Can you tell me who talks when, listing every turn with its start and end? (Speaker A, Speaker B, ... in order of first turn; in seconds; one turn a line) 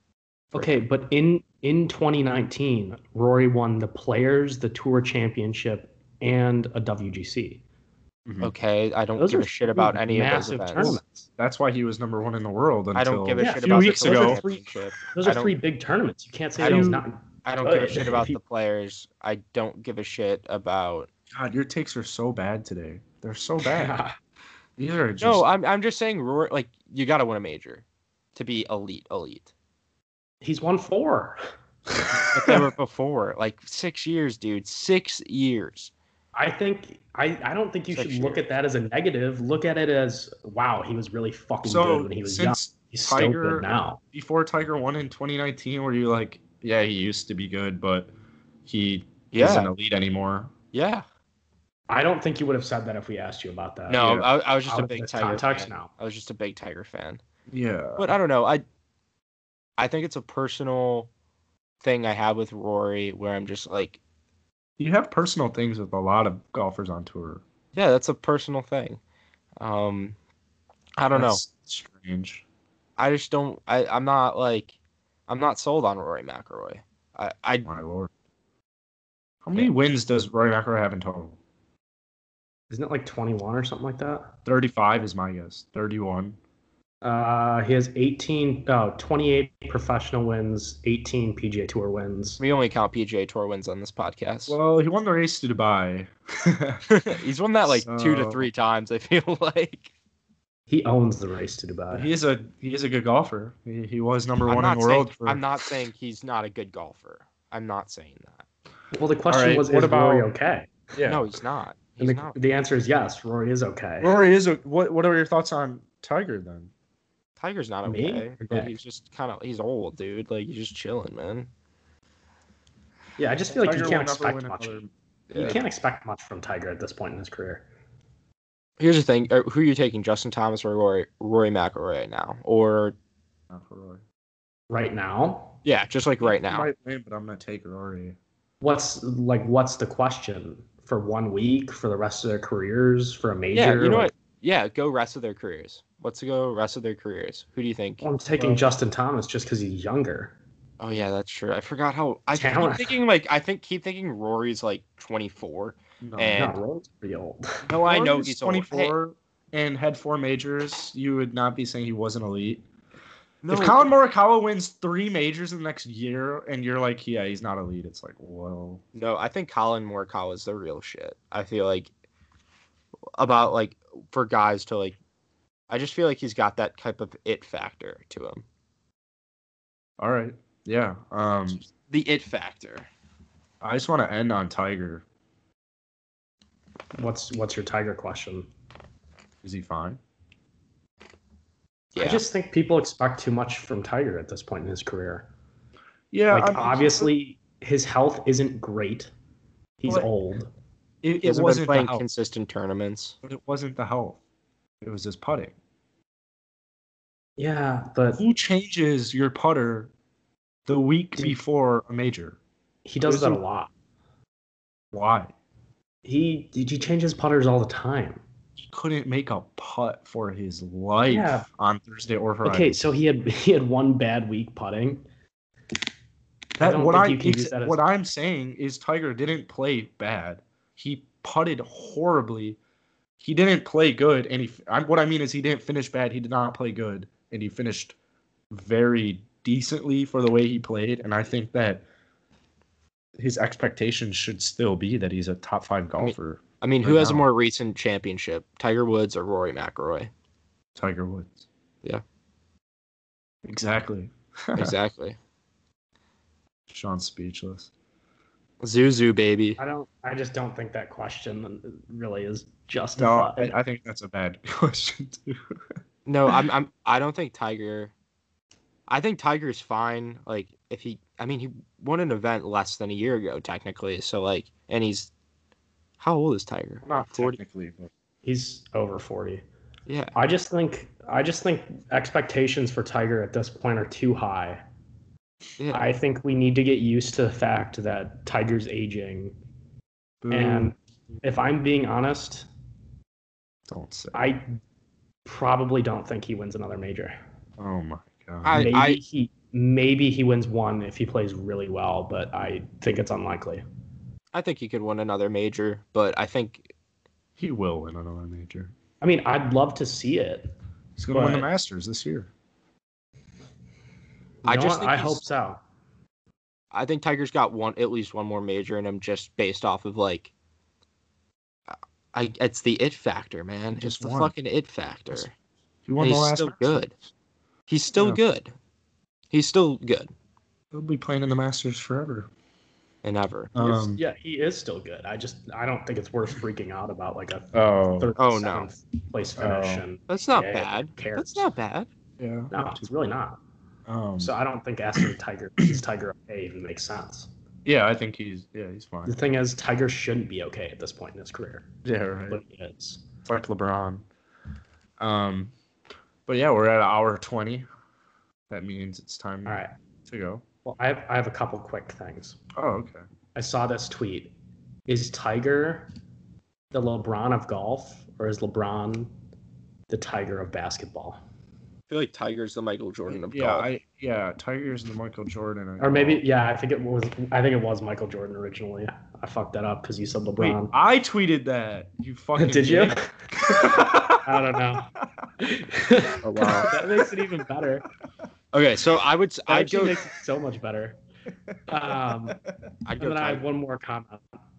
Speaker A: 0.5-7.6
Speaker B: 8.3-8.5
Speaker C: 8.4-11.0
Speaker A: 9.2-11.2
Speaker B: 10.8-14.4
Speaker C: 12.9-15.5
Speaker A: 13.4-18.4
Speaker C: 16.6-21.1
Speaker B: 16.6-17.0
Speaker B: 21.3-23.9
Speaker A: 23.6-24.2
Speaker B: 24.8-25.4
Speaker C: 25.2-27.8
Speaker C: 28.3-29.5
Speaker A: 30.4-31.4
Speaker A: 31.9-32.5
Speaker C: 32.2-35.9
Speaker A: 36.3-44.0
Speaker C: 37.9-38.4
Speaker B: 41.6-48.1
Speaker B: 48.6-50.5
Speaker C: 49.3-49.7
Speaker C: 50.7-51.0
Speaker A: 51.9-55.9
Speaker C: 53.9-57.2
Speaker B: 53.9-54.3
Speaker B: 57.5-58.1
Speaker C: 58.0-58.6
Speaker C: 59.8-61.1
Speaker C: 61.8-64.0
Speaker B: 64.8-67.4
Speaker C: 67.7-69.0
Speaker C: 69.6-70.1
Speaker C: 71.0-71.4
Speaker B: 71.1-72.4
Speaker C: 73.0-74.7
Speaker C: 75.3-77.7
Speaker B: 77.6-78.1
Speaker B: 79.4-81.4
Speaker A: 82.7-84.3
Speaker B: 84.5-86.4
Speaker A: 87.0-92.4
Speaker C: 92.4-94.6
Speaker B: 94.5-96.8
Speaker C: 96.9-99.9
Speaker B: 97.7-98.5
Speaker A: 100.7-102.1
Speaker B: 101.9-105.7
Speaker C: 104.5-108.4
Speaker A: 108.9-110.7
Speaker B: 109.3-110.3
Speaker B: 110.9-111.2
Speaker C: 111.0-112.4
Speaker A: 112.0-114.1
Speaker B: 114.0-116.7
Speaker C: 117.4-121.5
Speaker A: 117.8-118.7
Speaker A: 123.2-124.8
Speaker B: 123.5-125.6
Speaker C: 125.3-125.6
Speaker A: 125.3-127.7
Speaker C: 128.8-132.9
Speaker B: 133.5-134.0
Speaker A: 134.7-135.5
Speaker C: 135.6-136.7
Speaker B: 136.2-138.2
Speaker A: 138.6-144.1
Speaker C: 143.5-148.0
Speaker A: 148.0-150.3
Speaker B: 148.4-148.7
Speaker C: 150.8-156.6
Speaker A: 152.3-153.0
Speaker B: 156.0-156.5
Speaker A: 156.3-157.7
Speaker C: 157.7-158.9
Speaker B: 157.7-162.6
Speaker C: 163.4-163.9
Speaker B: 163.5-168.8
Speaker C: 168.9-171.9
Speaker C: 173.1-175.0
Speaker C: 175.7-178.4
Speaker B: 180.0-181.6
Speaker C: 181.7-182.9
Speaker B: 183.6-185.0
Speaker A: 186.9-188.5
Speaker B: 189.4-190.0
Speaker C: 191.9-192.2
Speaker A: 192.0-195.3
Speaker B: 196.1-197.1
Speaker A: 196.3-199.1
Speaker A: 199.8-200.5
Speaker B: 201.0-202.0
Speaker C: 201.2-203.2
Speaker B: 203.2-204.2
Speaker B: 204.8-205.6
Speaker A: 207.4-208.2
Speaker B: 208.2-209.9
Speaker B: 210.7-212.4
Speaker A: 212.8-213.7
Speaker B: 213.0-213.4
Speaker B: 214.9-215.3
Speaker A: 216.0-218.2
Speaker B: 218.6-222.8
Speaker A: 221.1-221.5
Speaker A: 222.4-225.0
Speaker B: 226.6-232.6
Speaker A: 226.6-227.8
Speaker B: 233.2-237.9
Speaker B: 238.5-241.8
Speaker B: 243.2-247.2
Speaker C: 246.0-250.1
Speaker B: 250.8-251.4
Speaker B: 253.4-254.8
Speaker C: 254.6-255.2
Speaker B: 256.7-257.7
Speaker C: 258.6-259.6
Speaker A: 259.6-263.5
Speaker B: 263.0-265.6
Speaker C: 266.1-267.9
Speaker C: 268.9-275.1
Speaker C: 276.0-277.4
Speaker B: 276.8-277.9
Speaker A: 278.2-279.4
Speaker C: 279.9-280.1
Speaker A: 280.1-284.6
Speaker C: 285.6-285.9
Speaker A: 285.7-289.4
Speaker B: 290.2-290.7
Speaker A: 290.3-292.5
Speaker B: 293.7-294.2
Speaker A: 294.1-294.6
Speaker A: 295.2-297.2
Speaker B: 297.6-298.7
Speaker C: 298.4-299.0
Speaker A: 298.5-303.6
Speaker C: 304.3-306.7
Speaker B: 307.4-308.7
Speaker A: 309.0-310.5
Speaker B: 311.0-312.3
Speaker A: 311.1-311.5
Speaker A: 314.4-315.6
Speaker C: 314.4-315.2
Speaker C: 316.7-320.3
Speaker C: 322.1-325.3
Speaker B: 323.7-324.3
Speaker B: 325.9-326.8
Speaker C: 326.0-326.9
Speaker C: 327.7-328.5
Speaker C: 329.3-330.1
Speaker B: 330.7-332.3
Speaker C: 333.0-333.5
Speaker B: 333.5-334.0
Speaker A: 333.6-341.5
Speaker B: 337.5-338.1
Speaker C: 338.2-338.7
Speaker B: 339.4-339.8
Speaker C: 340.1-341.9
Speaker B: 342.2-342.9
Speaker A: 342.5-343.4
Speaker B: 343.9-344.3
Speaker A: 344.2-347.3
Speaker B: 347.6-349.1
Speaker A: 349.0-351.7
Speaker B: 351.8-352.4
Speaker A: 352.3-353.0
Speaker B: 353.2-354.0
Speaker B: 355.0-355.5
Speaker B: 356.3-357.7
Speaker B: 358.5-360.4
Speaker A: 359.4-359.7
Speaker A: 360.6-362.4
Speaker B: 362.5-363.0
Speaker A: 363.3-364.3
Speaker A: 364.9-365.9
Speaker A: 366.7-369.1
Speaker A: 369.9-371.2
Speaker C: 371.9-373.6
Speaker B: 373.1-376.2
Speaker A: 375.8-380.7
Speaker B: 380.4-384.3
Speaker A: 382.4-383.1
Speaker A: 384.2-384.9
Speaker A: 385.4-387.9
Speaker C: 386.2-386.7
Speaker B: 386.4-387.0
Speaker C: 388.5-390.0
Speaker A: 389.5-391.0
Speaker A: 391.7-392.4
Speaker B: 391.9-392.6
Speaker C: 392.8-393.4
Speaker A: 393.0-394.3